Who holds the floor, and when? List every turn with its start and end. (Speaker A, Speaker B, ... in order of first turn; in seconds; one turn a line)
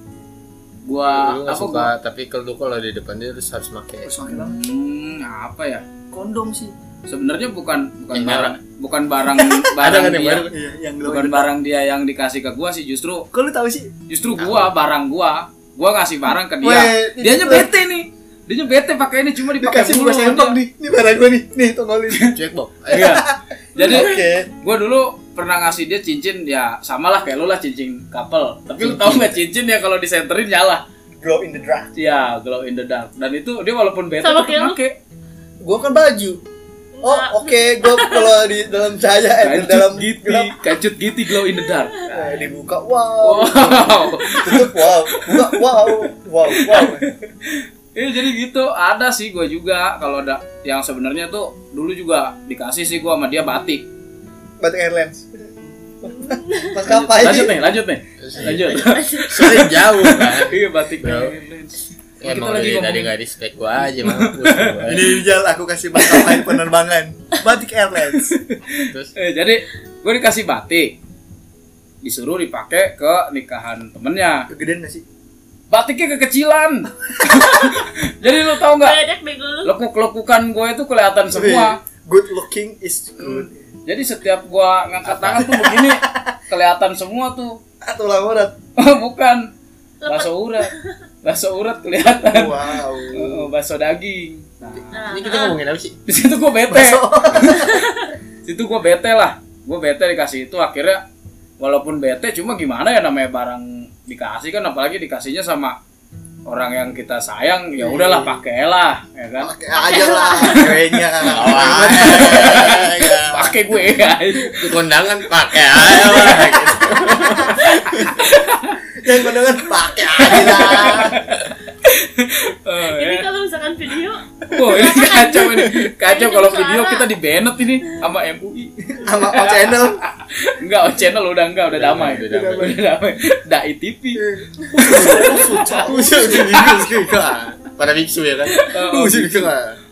Speaker A: 0.8-1.9
Speaker B: 1.0-4.1
Speaker C: 4.0-4.6
Speaker A: 4.3-5.8
Speaker C: 6.1-6.7
Speaker A: 7.1-13.3
Speaker B: 8.1-8.6
Speaker B: 9.8-10.5
Speaker C: 10.5-11.5
Speaker C: 13.3-13.9
Speaker A: 14.1-20.6
Speaker B: 14.3-14.7
Speaker C: 16.6-17.7
Speaker C: 19.6-22.4
Speaker B: 22.3-23.2
Speaker A: 22.9-30.8
Speaker C: 23.0-24.5
Speaker B: 28.8-29.4
Speaker C: 31.2-31.9
Speaker A: 31.9-35.0
Speaker D: 34.2-34.8
Speaker C: 35.6-36.4
Speaker D: 36.9-38.4
Speaker C: 37.0-40.5
Speaker A: 39.4-42.1
Speaker C: 42.1-47.1
Speaker B: 42.1-42.4
Speaker A: 43.2-53.9
Speaker C: 54.6-55.5
Speaker C: 56.0-57.6
Speaker D: 56.0-56.8
Speaker A: 56.8-63.1
Speaker B: 58.2-61.4
Speaker D: 58.8-59.5
Speaker B: 62.2-65.1
Speaker A: 64.0-65.1
Speaker C: 64.8-68.4
Speaker A: 66.1-66.4
Speaker A: 68.3-70.9
Speaker A: 72.0-74.5
Speaker C: 74.5-75.0
Speaker A: 75.7-79.0
Speaker D: 78.7-79.7
Speaker A: 79.6-81.8
Speaker C: 81.3-83.7
Speaker A: 83.2-87.6
Speaker B: 85.0-85.5
Speaker C: 85.4-86.3
Speaker C: 87.8-88.5
Speaker A: 88.8-89.5
Speaker D: 90.0-90.9
Speaker A: 90.0-90.7
Speaker A: 91.2-94.9
Speaker C: 92.2-93.5
Speaker D: 94.9-95.6
Speaker B: 95.1-96.0
Speaker A: 96.1-97.8
Speaker C: 96.7-97.8
Speaker D: 97.5-98.1
Speaker A: 98.4-101.0
Speaker A: 101.6-105.8
Speaker A: 106.5-109.5
Speaker C: 107.8-108.3
Speaker C: 109.4-112.7
Speaker D: 109.7-110.8
Speaker B: 111.2-113.7
Speaker A: 111.6-114.8
Speaker B: 114.5-118.1
Speaker A: 115.7-116.7
Speaker C: 117.2-118.2
Speaker A: 118.0-118.8
Speaker C: 118.9-121.2
Speaker A: 120.2-123.3
Speaker B: 120.2-120.9
Speaker D: 122.8-127.1
Speaker A: 124.5-134.2
Speaker C: 128.8-130.0
Speaker B: 131.7-132.8
Speaker C: 132.3-132.8
Speaker C: 134.2-136.6
Speaker A: 134.8-135.4
Speaker B: 135.2-139.8
Speaker A: 138.6-139.5